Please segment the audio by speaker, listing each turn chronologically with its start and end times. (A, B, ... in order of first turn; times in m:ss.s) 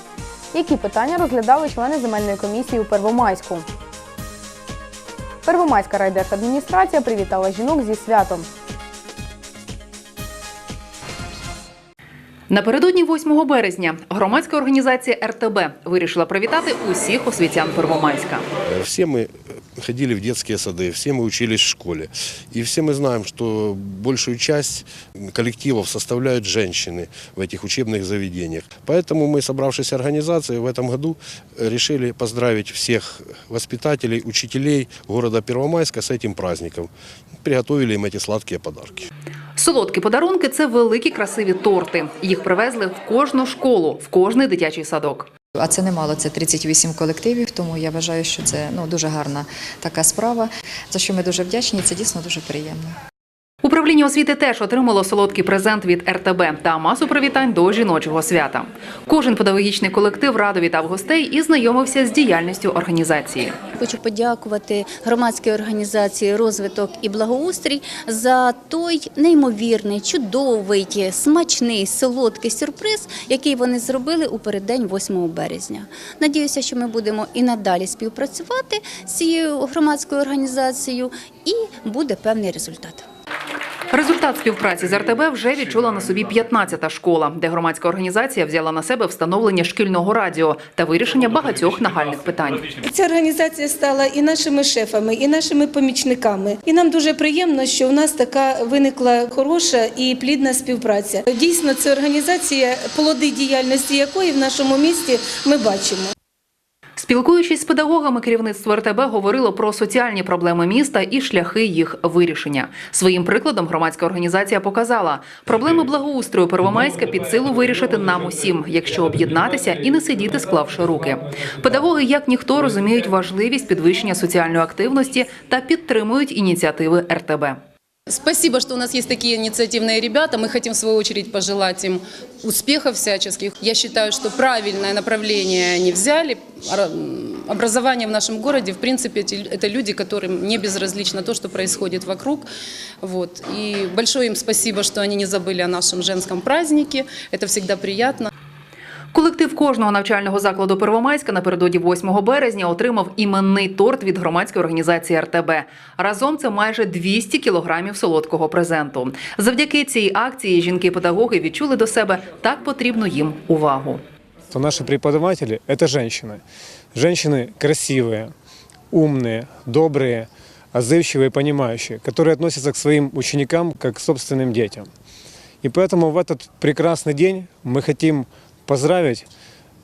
0:00.5-0:03.7 A
0:05.4-0:08.5 A
0:12.5-0:18.4 B
0:18.7-0:36.9 C
0:37.4-0:39.1 C
0:39.6-0:45.3 B
0:45.5-0:53.0 D
0:53.6-1:03.6 B
1:03.8-1:23.0 E
1:23.9-1:32.7 B
1:32.8-1:46.1 F
1:47.0-2:07.6 B
2:08.1-2:22.5 G
2:23.0-2:28.3 G
2:29.1-2:44.0 B
2:44.5-2:46.4 H
2:46.9-2:48.3 H
2:48.9-2:54.9 H
2:55.6-2:59.2 H